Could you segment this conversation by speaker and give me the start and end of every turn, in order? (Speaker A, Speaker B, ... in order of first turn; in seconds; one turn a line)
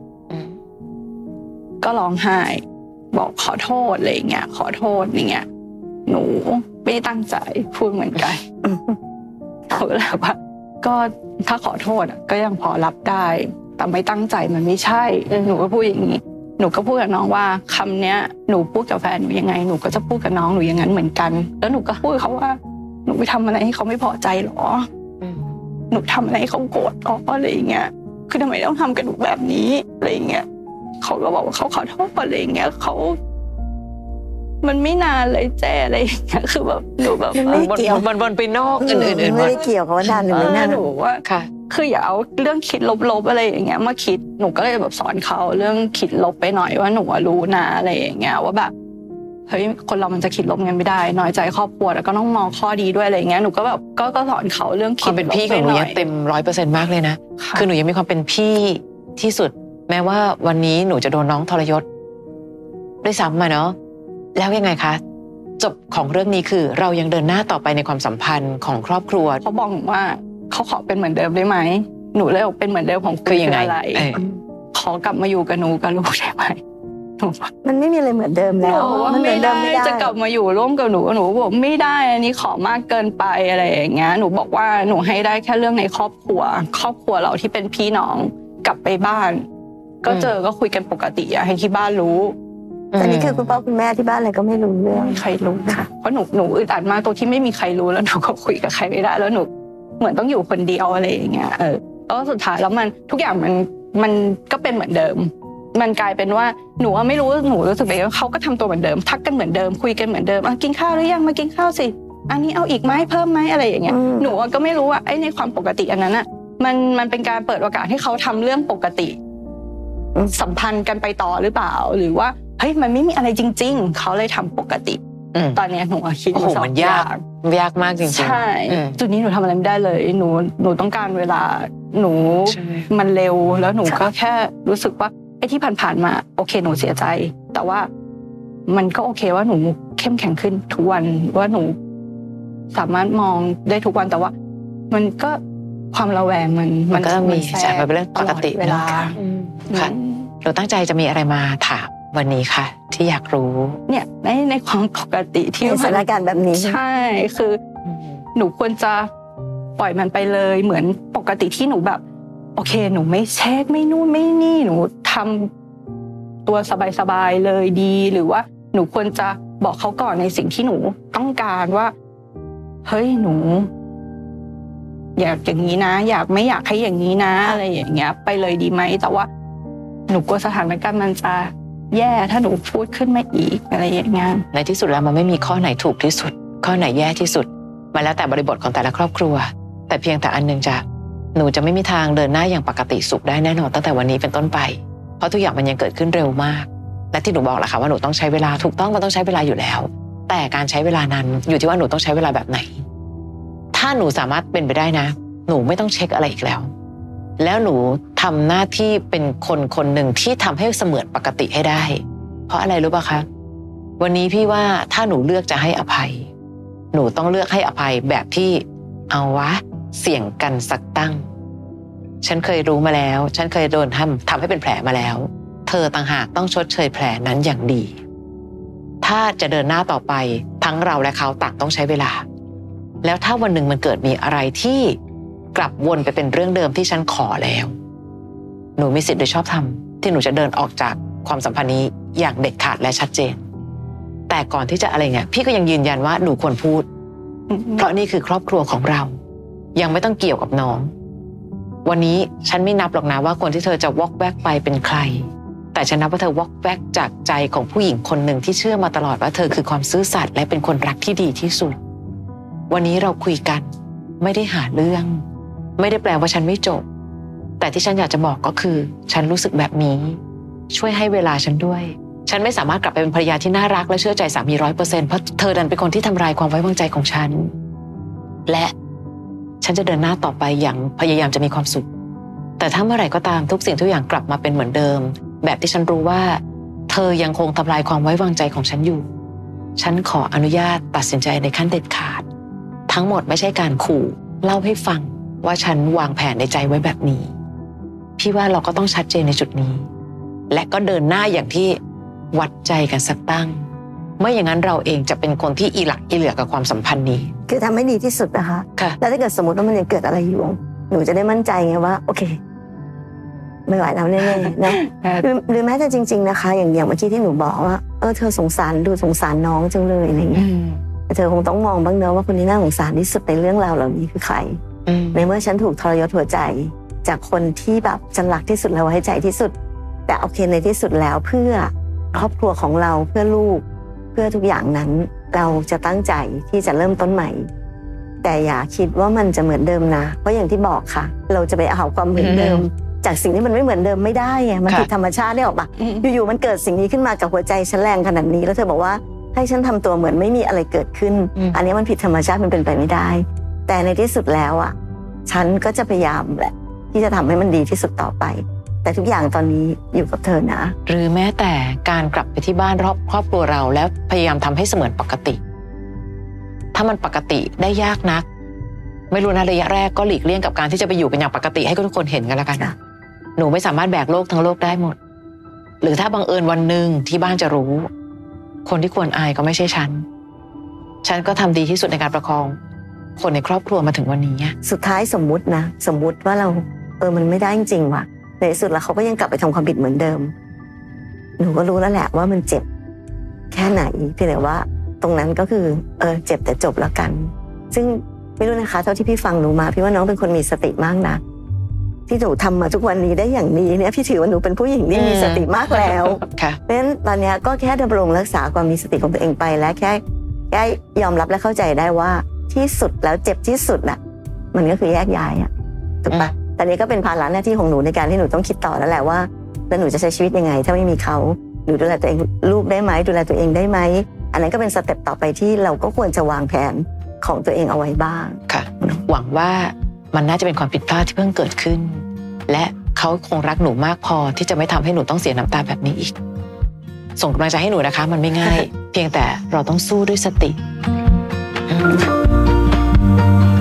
Speaker A: 0.3-0.6
Speaker B: 1.8-5.5
Speaker B: 6.1-8.4
Speaker C: 8.6-8.9
Speaker B: 9.7-24.9
Speaker A: 15.3-15.7
Speaker A: 25.2-25.5
Speaker B: 25.9-30.4
Speaker B: 31.0-33.2
Speaker B: 34.6-37.7
Speaker C: 37.3-38.1
Speaker A: 37.4-40.6
Speaker C: 38.8-40.9
Speaker B: 40.3-48.7
Speaker A: 41.2-41.5
Speaker B: 49.5-56.0
Speaker A: 55.0-61.8
Speaker B: 57.4-57.7
Speaker A: 63.0-63.8
Speaker A: 64.3-65.0
Speaker A: 65.6-69.4
Speaker B: 69.4-74.1
Speaker A: 73.2-74.2
Speaker B: 74.7-76.6
Speaker B: 77.2-77.5
Speaker C: 77.6-80.1
Speaker B: 78.6-89.4
Speaker A: 78.8-79.4
Speaker B: 90.0-92.3
Speaker A: 90.1-90.3
Speaker A: 92.9-93.6
Speaker C: 93.0-95.9
Speaker B: 94.9-99.5
Speaker B: 100.0-119.2
Speaker C: 113.9-114.3
Speaker B: 120.3-125.0
Speaker A: 125.3-125.6
Speaker B: 125.5-127.2
Speaker A: 126.3-129.0
Speaker B: 128.0-137.9
Speaker A: 132.5-132.9
Speaker B: 138.7-141.8
Speaker B: 142.7-144.3
Speaker B: 144.9-145.4
Speaker B: 145.9-149.2
Speaker A: 146.9-153.8
Speaker B: 149.7-150.3
Speaker B: 153.9-157.6
Speaker C: 155.6-156.8
Speaker A: 157.8-158.2
Speaker B: 158.3-159.1
Speaker B: 159.8-162.0
Speaker B: 162.6-165.5
Speaker B: 166.4-171.9
Speaker B: 172.8-173.7
Speaker B: 175.2-179.3
Speaker B: 180.1-184.4
Speaker A: 184.5-190.8
Speaker A: 191.3-202.8
Speaker A: 203.7-206.7
Speaker A: 207.4-213.2
Speaker A: 214.0-216.3
Speaker A: 216.9-221.3
Speaker A: 222.2-228.0
Speaker A: 229.0-232.2
Speaker A: 233.0-235.0
Speaker A: 235.5-237.7
Speaker A: 238.8-243.4
Speaker A: 244.3-246.8
Speaker B: 247.5-247.9
Speaker A: 247.8-249.1
Speaker A: 249.7-250.9
Speaker A: 251.8-261.8
Speaker A: 262.7-263.6
Speaker A: 264.2-265.2
Speaker A: 265.8-266.8
Speaker A: 267.6-270.2
Speaker A: 270.7-277.5
Speaker A: 278.5-278.7
Speaker A: 279.6-281.9
Speaker A: 282.6-289.1
Speaker A: 289.8-292.2
Speaker A: 292.9-297.3
Speaker A: 298.2-299.9
Speaker A: 300.5-301.8
Speaker A: 302.3-303.6
Speaker A: 304.2-307.3
Speaker C: 307.5-312.4
Speaker C: 313.7-320.4
Speaker B: 314.4-315.2
Speaker A: 320.3-320.8
Speaker C: 321.1-324.6
Speaker A: 324.9-325.3
Speaker C: 325.1-329.5
Speaker C: 330.1-333.6
Speaker C: 334.1-337.5
Speaker C: 338.2-354.7
Speaker A: 342.1-342.7
Speaker B: 345.8-346.1
Speaker C: 355.3-360.7
Speaker A: 360.9-365.4
Speaker A: 366.7-368.2
Speaker A: 369.1-372.7
Speaker A: 373.4-374.9
Speaker A: 375.8-377.9
Speaker A: 378.6-380.0
Speaker A: 381.0-382.6
Speaker A: 383.2-384.5
Speaker C: 384.6-390.3
Speaker C: 391.4-392.6
Speaker C: 393.5-401.2
Speaker C: 402.1-414.0
Speaker A: 404.9-406.6
Speaker C: 414.5-415.5
Speaker C: 416.0-429.0
Speaker A: 428.5-436.1
Speaker A: 437.2-440.6
Speaker A: 441.7-442.1